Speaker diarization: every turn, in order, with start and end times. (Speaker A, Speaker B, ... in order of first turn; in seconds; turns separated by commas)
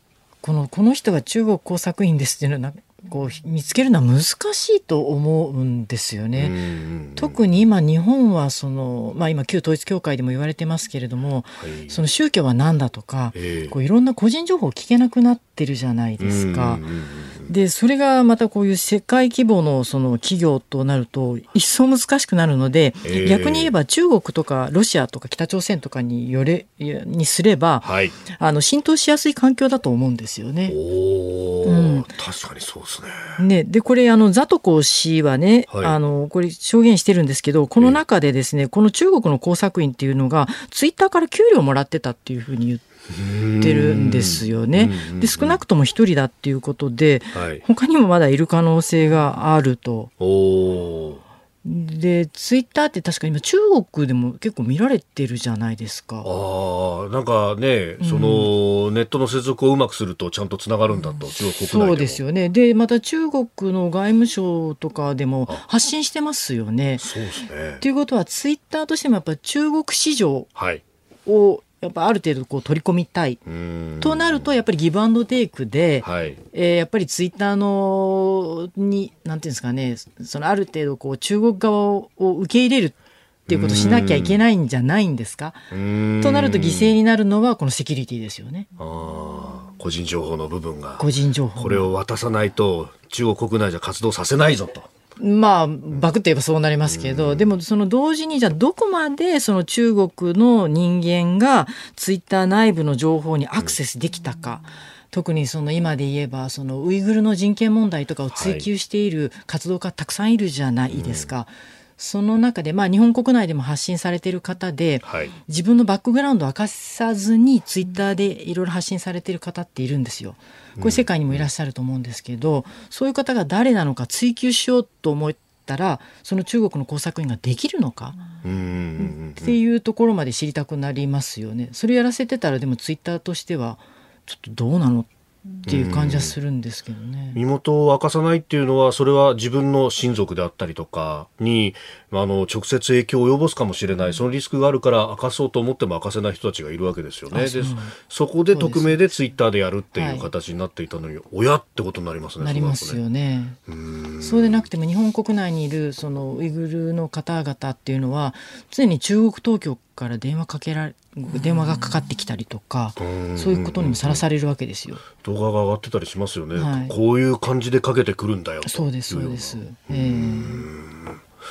Speaker A: 0.4-6.6, Speaker B: 6.4-7.4, Speaker A: 7.2-16.9, Speaker B: 11.6-12.0, Speaker B: 13.3-13.8, Speaker B: 16.2-17.5, Speaker A: 17.5-30.8, Speaker B: 23.0-23.7, Speaker B: 27.8-28.1, Speaker B: 30.7-33.4, Speaker A: 31.6-32.1, Speaker A: 33.4-42.8, Speaker B: 35.7-36.0, Speaker B: 43.1-45.6, Speaker A: 43.6-50.1, Speaker B: 47.3-47.6, Speaker B: 50.2-51.2, Speaker A: 51.6-56.3, Speaker B: 56.2-62.2, Speaker A: 58.0-58.5, Speaker A: 61.5-67.1, Speaker B: 67.0-67.8, Speaker A: 67.8-70.5, Speaker B: 70.5-70.8, Speaker A: 71.3-73.4, Speaker B: 73.5-74.5, Speaker A: 74.0-83.0, Speaker B: 76.0-76.4, Speaker B: 83.5-84.4, Speaker A: 83.5-85.6, Speaker B: 85.7-87.0, Speaker A: 86.2-88.7, Speaker B: 88.8-91.1, Speaker A: 91.0-91.9, Speaker B: 91.6-94.9, Speaker A: 95.2-128.3, Speaker B: 96.9-97.5, Speaker B: 108.3-108.7, Speaker B: 110.9-111.3, Speaker B: 115.0-115.3, Speaker B: 120.8-121.5, Speaker B: 128.4-129.6, Speaker A: 129.0-135.1, Speaker A: 135.6-137.4, Speaker B: 135.7-136.3, Speaker B: 137.3-153.0, Speaker A: 147.3-147.9, Speaker A: 148.5-149.0, Speaker A: 149.9-150.3, Speaker A: 152.4-153.6, Speaker B: 153.7-154.7, Speaker A: 154.2-165.0, Speaker B: 163.0-164.2, Speaker B: 165.2-171.2, Speaker A: 166.6-166.9, Speaker A: 168.7-170.7